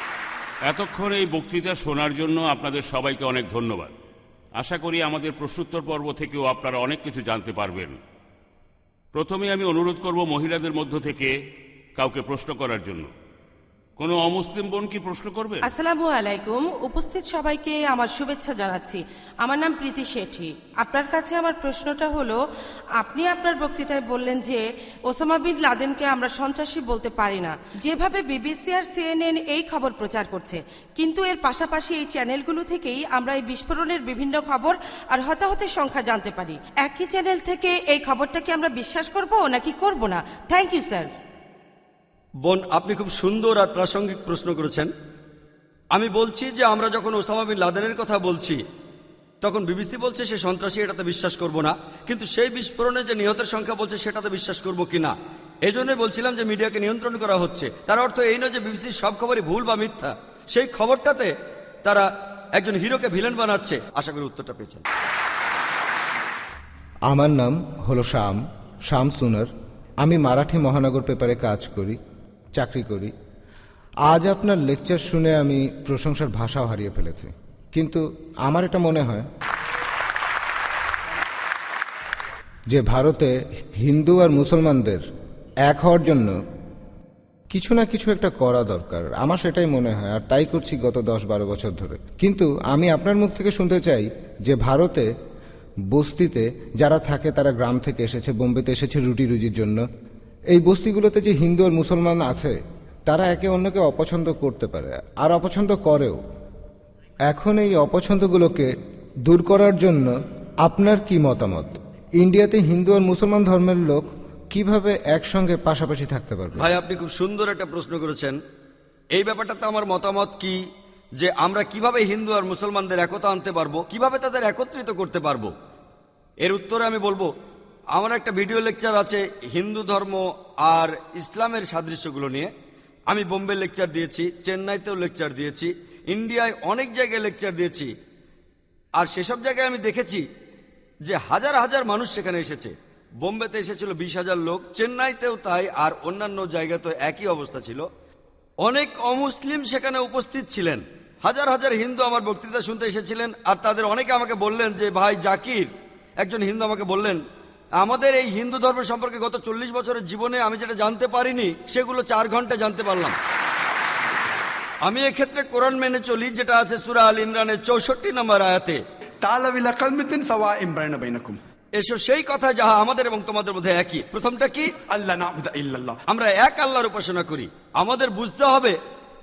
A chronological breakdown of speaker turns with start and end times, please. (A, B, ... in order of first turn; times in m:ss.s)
0:00.7-0:03.9 A
0:04.6-0:08.0 A
0:09.1-0:11.3 A
0:12.0-0:13.1 A
0:14.0-0:15.6 A
0:15.6-0:22.4 B
0:23.0-0:41.1 B
0:42.4-0:44.9 C
0:45.9-0:48.6 C
0:49.4-0:55.1 C
0:55.6-1:01.3 C
1:01.8-1:04.8 C
1:07.1-1:09.5 D
1:10.0-1:12.0 D
1:12.6-1:13.1 D
1:14.1-1:19.3 D
1:22.7-1:25.0 D
1:25.7-1:26.4 D
1:27.5-1:35.1 D
1:35.9-1:39.8 D
1:40.5-1:46.2 D
1:47.3-1:48.7 D
1:49.3-1:50.1 D
1:50.6-1:56.7 D
1:56.6-1:58.4 C
1:59.2-2:00.6 C
2:01.2-2:05.5 C
2:06.4-2:07.3 C
2:08.0-2:12.5 C
2:13.1-2:17.9 C
2:19.0-2:20.2 C
2:21.1-2:27.8 C
2:28.6-2:35.7 C
2:36.2-2:37.2 C
2:37.8-2:43.2 C
2:44.8-2:48.8 C
2:49.2-2:51.4 E
2:51.8-2:54.7 C
2:54.8-2:56.0 E
2:56.1-2:58.8 C